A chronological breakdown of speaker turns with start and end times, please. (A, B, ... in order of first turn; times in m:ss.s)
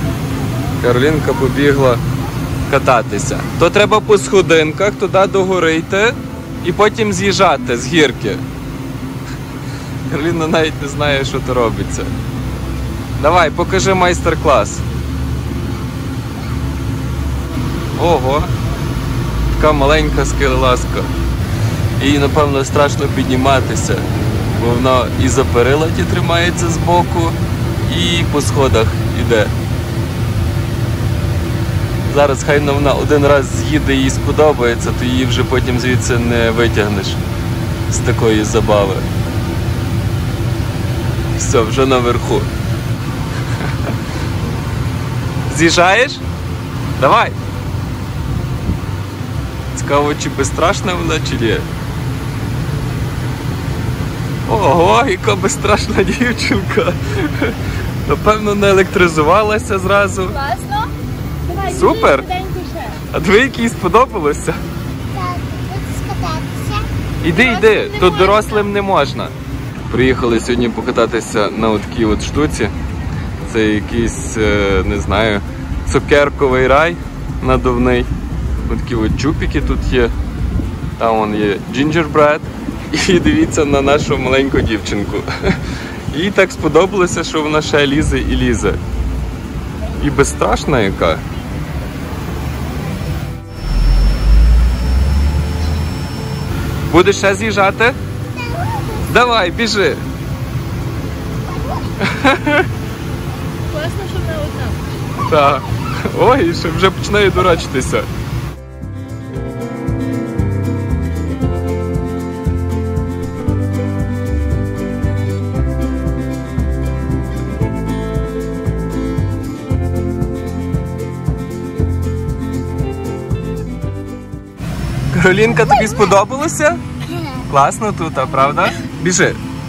0:00.8-0:02.0 A
0:02.7-0:08.4 A
0:10.0-0:12.1 A
0:13.2-0:14.8 A
0:18.0-0:18.5 A
0:19.5-0:21.1 A
0:22.0-0:29.5 A
0:32.1-0:37.2 A
0:37.9-0:39.1 A
0:41.4-0:42.5 A
0:43.6-0:43.9 A
0:45.5-0:46.2 A
0:47.0-0:47.4 A
0:49.7-0:51.7 A
0:54.5-1:00.4 A
1:00.3-1:00.9 B
1:01.4-1:03.0 B
1:01.6-1:02.3 A
1:03.1-1:04.6 A
1:05.1-1:06.9 C
1:07.2-1:09.3 A
1:07.3-1:08.7 B
1:09.9-1:12.7 A
1:13.4-1:18.1 A
1:18.7-1:20.1 A
1:21.0-1:25.6 A
1:26.1-1:28.8 A
1:30.0-1:31.2 A
1:36.9-1:38.0 A
1:38.3-1:39.4 C
1:39.1-1:40.0 A
1:41.5-1:42.0 C
1:42.0-1:42.7 A
1:43.7-1:44.8 B
1:45.2-1:48.1 A
2:05.1-2:06.8 A
2:05.6-2:06.2 C
2:07.1-2:07.4 C
2:07.5-2:09.4 A